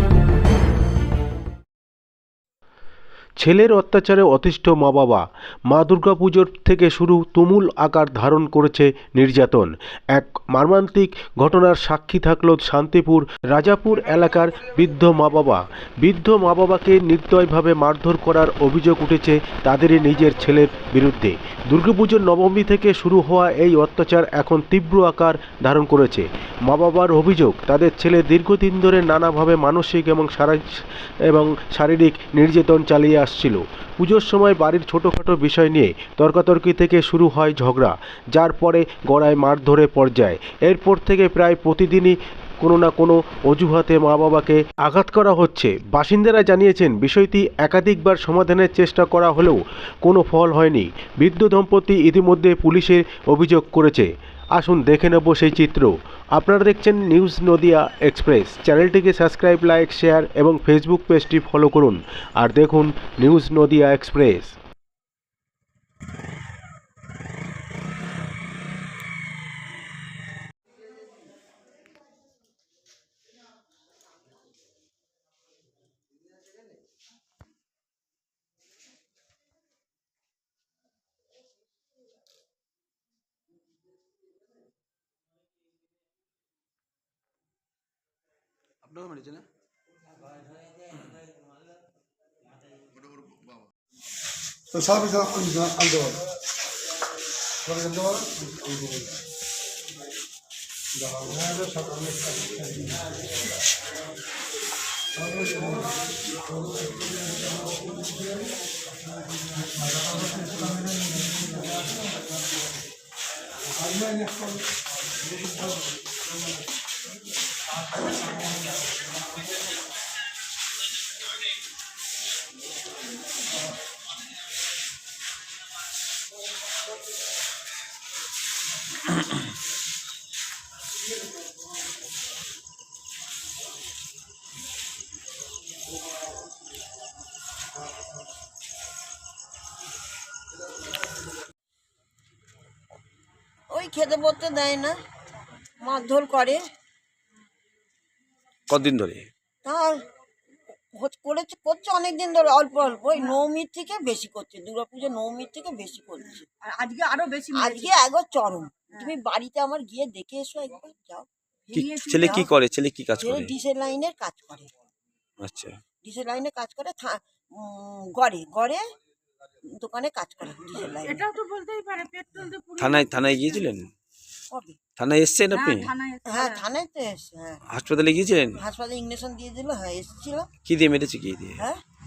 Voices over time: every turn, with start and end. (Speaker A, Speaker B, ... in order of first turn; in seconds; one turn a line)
Speaker A: 3.4-64.6
Speaker B: 88.8-89.4
Speaker C: 94.8-96.2
Speaker C: 97.7-98.5
Speaker C: 101.2-102.2
Speaker D: 143.7-144.9
Speaker D: 145.8-146.6
Speaker B: 148.7-149.2
Speaker D: 149.6-150.0
Speaker D: 150.9-156.4
Speaker E: 156.6-158.0
Speaker D: 157.5-161.3
Speaker E: 161.7-162.4
Speaker B: 161.7-163.5
Speaker D: 161.8-162.5
Speaker D: 163.2-164.7
Speaker B: 165.4-165.7
Speaker D: 166.0-168.8
Speaker D: 169.7-171.3
Speaker E: 171.0-173.6
Speaker B: 172.8-173.9
Speaker D: 174.5-174.8
Speaker B: 175.0-175.9
Speaker E: 175.5-176.7
Speaker D: 176.2-177.6
Speaker B: 177.7-178.6
Speaker D: 178.6-180.5
Speaker B: 180.6-181.6